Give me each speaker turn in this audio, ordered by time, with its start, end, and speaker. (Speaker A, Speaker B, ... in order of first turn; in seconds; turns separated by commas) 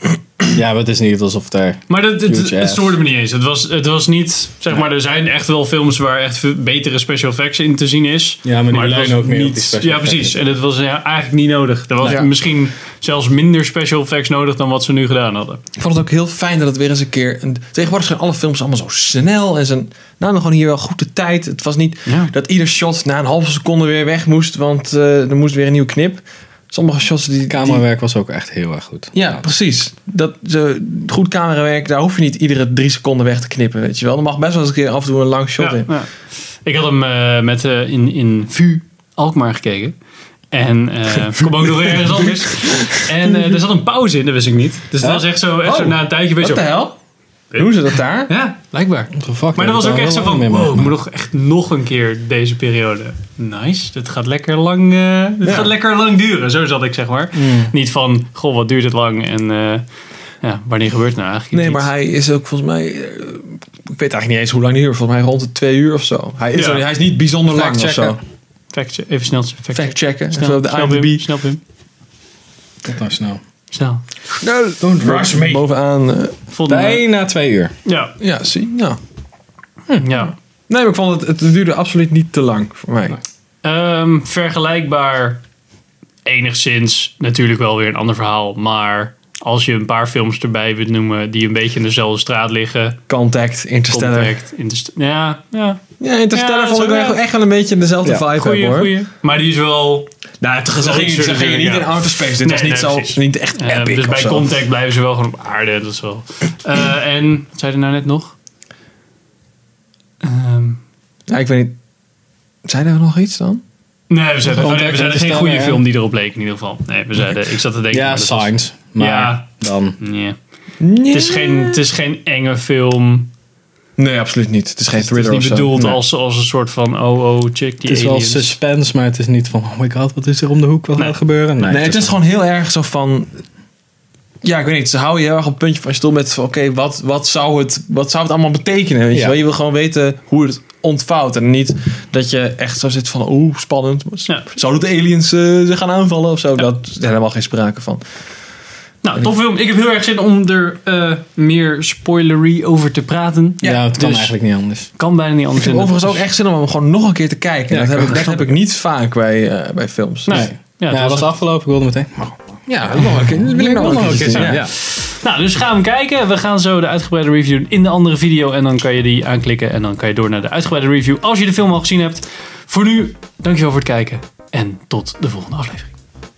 Speaker A: 0.4-3.0, Speaker B: 1.9-15.6, Speaker A: 8.4-10.4, Speaker C: 12.0-12.3, Speaker C: 15.8-27.8, Speaker B: 22.1-22.3, Speaker A: 27.5-29.4, Speaker C: 29.1-35.9, Speaker B: 35.6-36.1, Speaker B: 36.6-40.0, Speaker B: 40.5-46.8, Speaker C: 42.6-43.0, Speaker C: 45.0-46.9, Speaker C: 47.5-48.3, Speaker B: 48.3-59.8, Speaker A: 49.1-50.9, Speaker C: 55.4-55.7, Speaker A: 57.3-57.7, Speaker B: 60.4-61.9, Speaker C: 61.5-68.2, Speaker B: 66.5-66.8, Speaker A: 67.5-68.2, Speaker B: 68.7-71.6, Speaker C: 69.7-71.3, Speaker A: 72.8-73.4, Speaker B: 73.7-74.0, Speaker C: 74.4-76.3, Speaker A: 74.8-75.6, Speaker B: 76.5-77.0, Speaker A: 76.7-77.7, Speaker B: 77.8-78.1, Speaker C: 78.2-79.0, Speaker B: 79.9-80.3, Speaker C: 80.7-83.2, Speaker B: 83.6-85.4, Speaker B: 86.2-93.0, Speaker C: 93.1-94.3, Speaker B: 93.9-95.8, Speaker C: 96.0-98.9, Speaker B: 96.3-97.2, Speaker B: 98.3-100.1, Speaker C: 100.4-104.6, Speaker B: 100.7-108.3, Speaker B: 110.2-110.8, Speaker C: 111.3-111.7, Speaker C: 112.7-113.6, Speaker B: 114.1-119.5, Speaker A: 114.5-115.8, Speaker A: 117.9-120.0, Speaker B: 120.0-120.3, Speaker C: 120.8-121.8, Speaker B: 121.1-123.3, Speaker C: 124.0-126.0, Speaker B: 124.9-128.5, Speaker A: 127.8-132.1, Speaker C: 131.6-133.3, Speaker C: 134.4-148.0, Speaker B: 149.0-154.3, Speaker A: 153.6-154.9, Speaker B: 154.9-156.2, Speaker C: 155.6-160.5, Speaker A: 157.7-158.4, Speaker B: 160.2-161.3, Speaker A: 160.3-164.7, Speaker C: 162.7-164.7, Speaker B: 164.0-175.9